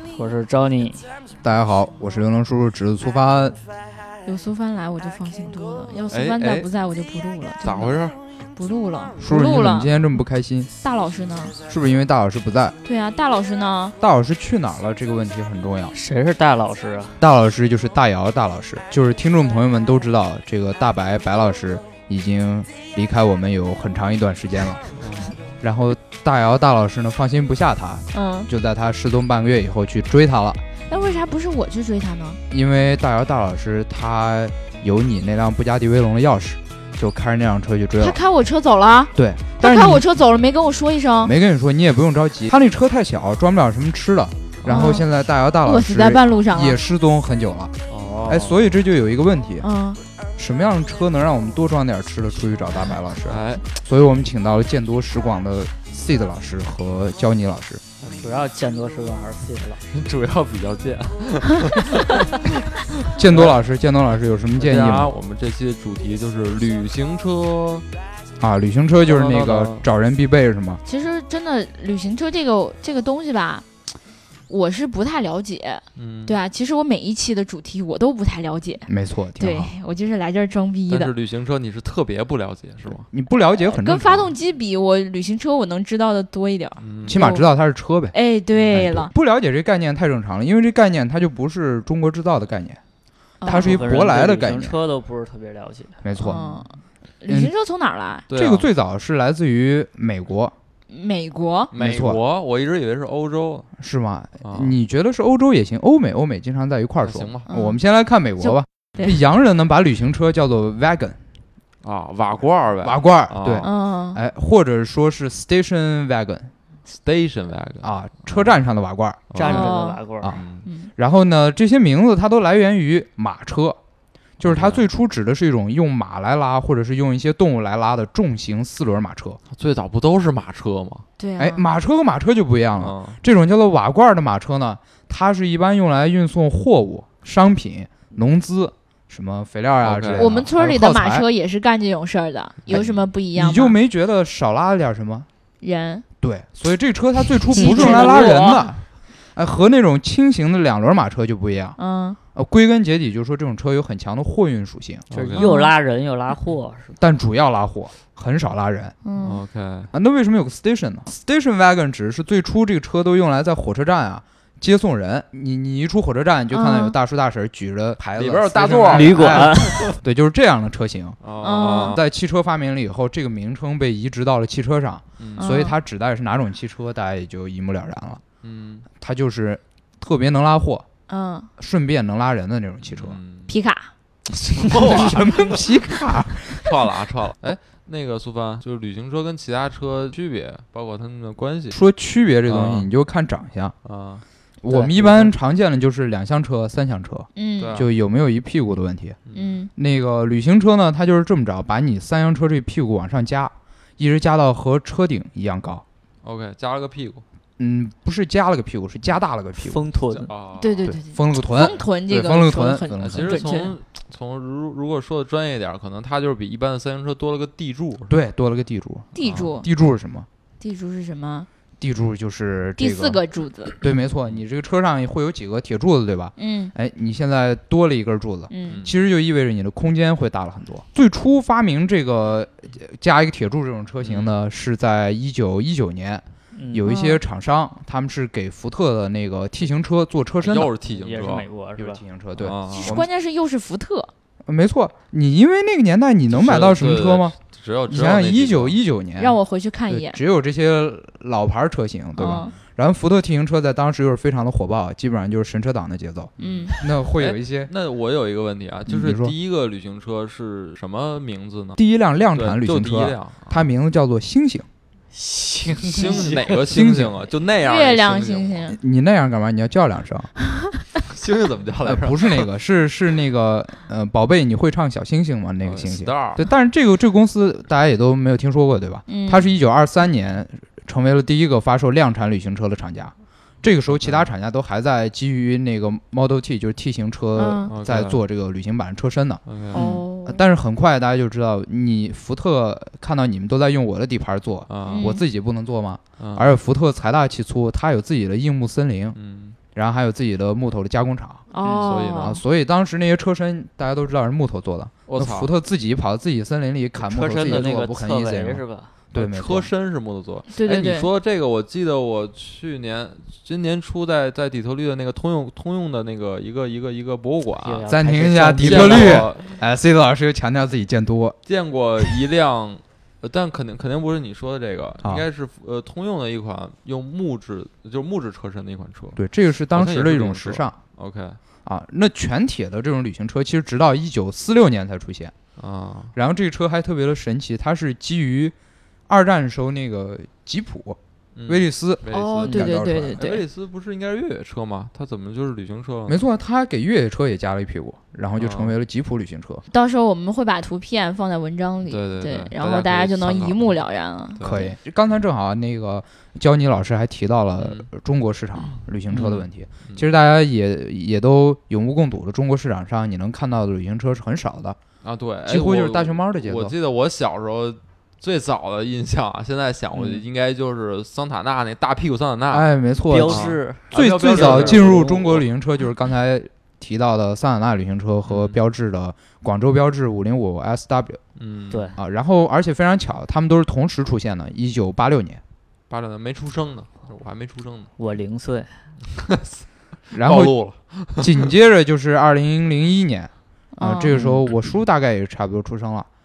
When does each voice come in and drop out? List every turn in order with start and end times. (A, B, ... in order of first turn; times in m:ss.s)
0:00.1-0:01.1 A
0:01.4-0:03.6 B
0:04.2-0:08.0 C
0:06.1-0:06.7 D
0:07.6-0:08.2 D
0:08.5-0:09.9 C
0:09.2-0:10.7 B
0:10.8-0:11.6 C
0:11.6-0:12.8 B
0:12.8-0:14.0 C
0:14.0-0:15.9 B
0:15.9-0:17.2 A
0:17.2-0:24.8 B
0:25.0-0:25.4 D
0:25.6-0:30.6 B
0:28.1-0:28.5 C
0:30.9-0:32.4 C
0:32.5-0:38.2 B
0:38.0-0:41.3 C
0:39.1-0:40.0 B
0:41.2-0:47.7 B
0:44.6-0:45.0 D
0:44.7-0:45.1 C
0:45.6-0:46.8 C
0:47.9-0:48.7 D
0:48.3-0:49.7 B
0:49.6-0:50.0 C
0:50.4-0:57.8 B
0:53.2-0:53.7 D
0:58.0-0:58.3 D
0:58.0-0:59.9 A
0:59.9-1:03.6 D
1:03.2-1:05.1 B
1:04.6-1:07.8 D
1:08.4-1:10.8 B
1:09.1-1:09.8 D
1:10.8-1:13.7 C
1:14.5-1:21.1 C
1:16.0-1:16.4 D
1:18.9-1:19.7 B
1:20.9-1:23.1 D
1:22.9-1:24.3 B
1:23.7-1:27.5 C
1:26.8-1:27.2 D
1:27.0-1:28.2 B
1:28.1-1:29.1 C
1:28.7-1:32.8 B
1:33.4-1:34.0 C
1:33.4-1:34.8 B
1:33.5-1:36.0 A
1:36.0-1:36.6 B
1:36.2-1:38.2 C
1:37.3-1:37.5 B
1:38.3-1:38.7 D
1:38.3-1:40.5 B
1:40.9-1:41.7 C
1:41.7-1:43.7 D
1:41.7-1:42.2 B
1:43.8-1:51.2 B
1:44.4-1:44.8 D
1:47.0-1:47.5 D
1:47.5-1:47.8 C
1:48.4-1:49.2 C
1:51.8-1:53.7 D
1:52.8-1:56.5 B
1:53.6-1:54.2 C
1:56.8-1:58.5 D
1:57.8-1:59.4 B
1:59.3-1:59.8 D
1:59.4-2:00.4 A
1:59.4-2:00.0 C
2:00.3-2:00.7 D
2:00.6-2:00.9 C
2:01.0-2:03.8 B
2:04.4-2:09.4 B
2:04.4-2:04.8 D
2:09.5-2:11.0 D
2:11.2-2:11.7 C
2:11.4-2:21.2 B
2:12.8-2:13.2 D
2:19.8-2:20.4 D
2:20.2-2:23.8 C
2:22.7-2:25.3 B
2:22.7-2:23.0 D
2:25.6-2:26.0 C
2:26.2-2:31.8 B
2:27.5-2:28.6 C
2:27.6-2:28.6 A
2:31.8-2:32.2 C
2:32.3-2:35.0 B
2:35.1-2:35.5 D
2:35.1-2:37.0 A
2:35.4-2:35.7 C
2:37.0-2:39.0 B
2:39.0-2:39.4 C
2:39.2-2:39.9 D
2:39.9-2:58.2 B
2:46.5-2:47.0 C
2:48.2-2:49.9 D
2:48.9-2:49.8 A
2:51.2-2:52.0 D
2:51.4-2:52.0 C
2:55.2-2:55.5 D
2:55.4-2:55.8 C
2:58.4-2:58.8 D
2:59.0-3:00.8 B
3:01.1-3:01.5 C
3:01.6-3:03.2 B
3:02.8-3:03.5 D
3:03.5-3:03.9 C
3:04.4-3:11.8 D
3:04.8-3:06.7 B
3:11.7-3:13.8 B
3:12.4-3:12.9 D
3:13.8-3:14.2 D
3:14.6-3:19.2 B
3:14.7-3:15.3 A
3:17.4-3:17.8 C
3:17.6-3:17.9 D
3:19.2-3:19.6 D
3:19.3-3:19.7 C
3:19.8-3:25.8 B
3:26.2-3:27.2 D
3:27.6-3:29.8 B
3:29.6-3:30.3 A
3:30.1-3:30.9 D
3:30.6-3:33.7 C
3:30.8-3:33.3 B
3:33.0-3:38.2 D
3:38.1-3:40.3 B
3:39.1-3:39.7 C
3:39.2-3:39.5 D
3:40.6-3:41.5 C
3:41.8-3:43.2 B
3:42.8-3:43.8 C
3:43.8-4:00.7 B
3:46.4-3:46.7 C
3:48.5-3:48.8 C
3:48.6-3:48.9 D
3:54.0-3:54.3 D
3:56.5-3:56.9 A
3:56.8-3:57.2 C
4:00.4-4:01.5 D
4:00.9-4:02.0 A
4:01.8-4:03.1 B
4:02.4-4:03.0 D
4:02.7-4:04.1 C
4:04.5-4:07.3 B
4:06.3-4:08.8 D
4:07.9-4:17.7 B
4:09.2-4:10.2 C
4:12.2-4:12.5 C
4:12.2-4:12.6 D
4:16.4-4:21.8 D
4:16.4-4:16.7 C
4:18.9-4:19.3 B
4:21.8-4:24.7 B
4:22.3-4:23.7 D
4:25.1-4:26.6 A
4:25.8-4:28.6 D
4:26.5-4:27.2 B
4:27.6-4:28.8 C
4:28.7-4:30.3 B
4:31.0-4:32.5 D
4:31.8-4:49.4 B
4:35.6-4:36.4 D
4:39.1-4:39.5 C
4:43.9-4:44.3 D
4:47.4-4:47.7 C
4:47.7-4:48.2 D
4:49.5-4:49.9 D
4:49.7-4:50.4 C
4:49.7-4:50.0 A
4:50.2-4:59.2 B
4:54.7-4:55.2 D
4:54.9-4:55.2 C
4:56.2-4:56.5 D
4:59.2-4:59.6 D
4:59.8-5:09.7 B
5:01.5-5:02.4 C
5:01.6-5:02.4 D
5:05.1-5:05.5 D
5:07.0-5:08.9 A
5:09.1-5:17.9 D
5:10.5-5:11.1 C
5:17.6-5:19.2 A
5:17.9-5:21.4 B
5:18.6-5:19.6 D
5:21.5-5:29.2 D
5:25.0-5:25.2 B
5:29.2-5:30.8 B
5:29.7-5:31.4 D
5:31.6-5:35.3 B
5:35.6-5:36.1 D
5:36.2-5:38.6 B
5:39.1-5:43.2 B
5:41.4-5:46.2 D
5:42.1-5:43.4 C
5:46.1-5:49.6 B
5:48.4-5:48.8 D
5:49.7-5:54.7 C
5:51.9-5:53.8 D
5:54.4-5:54.7 D
5:54.4-6:04.8 B
5:57.6-5:57.9 D
5:58.6-6:00.1 D
5:59.1-5:59.4 A
6:05.0-6:12.7 D
6:05.5-6:06.7 B
6:09.9-6:10.2 A
6:12.5-6:21.2 B
6:13.1-6:15.4 A
6:13.2-6:15.4 D
6:18.3-6:18.6 D
6:21.4-6:21.9 D
6:21.7-6:22.0 A
6:22.0-6:25.4 B
6:25.9-6:27.9 D
6:28.0-6:28.7 A
6:29.1-6:29.6 D
6:30.1-6:30.6 B
6:30.2-6:31.5 D
6:31.1-6:36.1 B
6:33.8-6:34.2 C
6:34.1-6:34.4 A